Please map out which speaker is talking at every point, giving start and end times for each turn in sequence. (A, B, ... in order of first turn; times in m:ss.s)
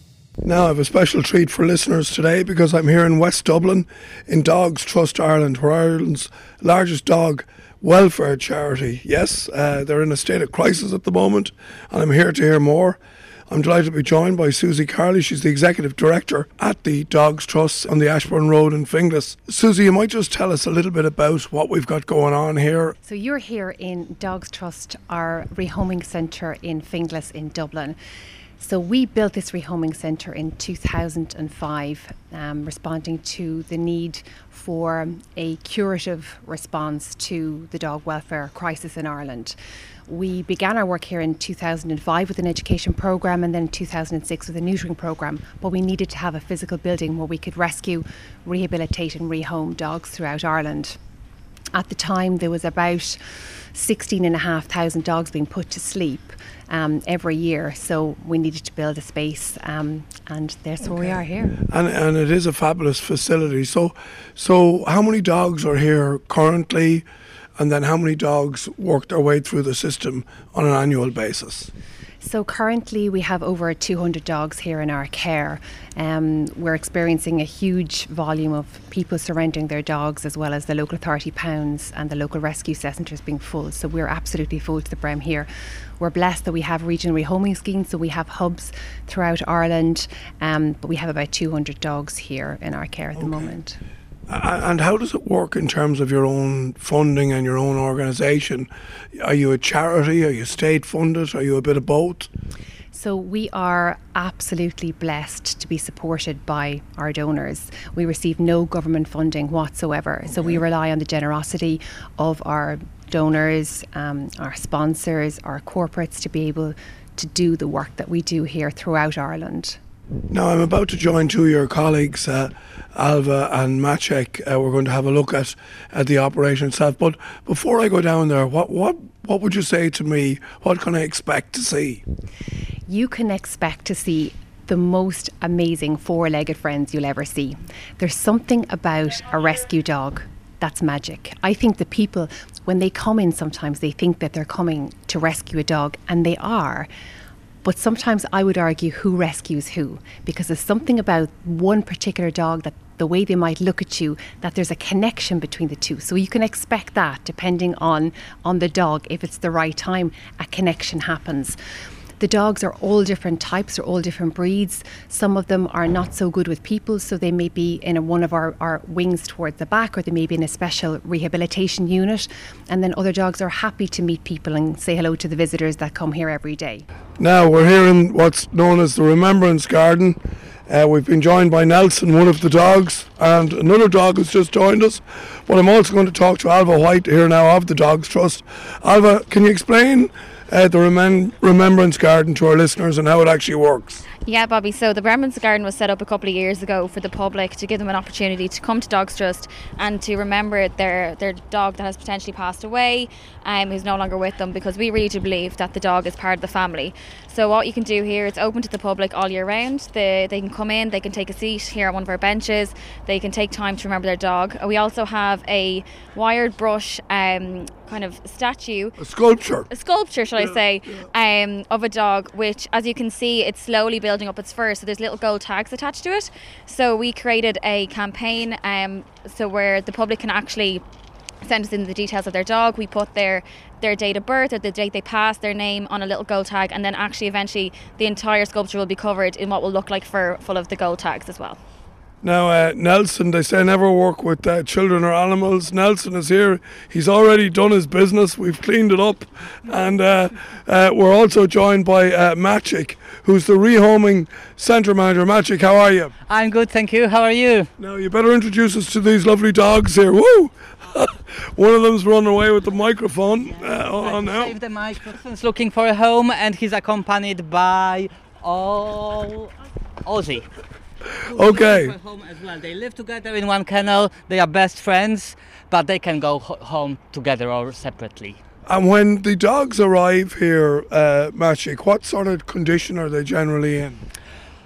0:00.4-0:13.0 A
0:13.5-0:23.0 A
0:23.0-0:28.0 B
0:28.6-0:39.6 B
0:40.1-0:51.0 B
0:51.7-0:53.2 B
0:53.7-1:01.6 B
1:01.7-1:07.1 A
1:07.6-1:11.7 A
1:12.2-1:25.5 B
1:26.0-1:33.8 B
1:33.2-1:33.5 A
1:34.3-1:42.3 A
1:42.9-1:59.8 B
2:00.3-2:12.0 A
2:12.9-2:26.9 B
2:27.6-2:41.6 B
2:42.2-2:56.8 B
2:57.2-3:14.0 A
3:14.2-3:39.0 C
3:39.0-3:39.7 A
3:39.7-3:50.8 C
3:51.4-4:01.6 C
4:02.2-4:16.1 A
4:16.3-4:17.7 D
4:17.8-4:24.6 A
4:23.4-4:29.5 D
4:30.0-4:30.5 D
4:31.2-4:38.4 D
4:31.3-4:32.0 A
4:38.7-4:44.1 A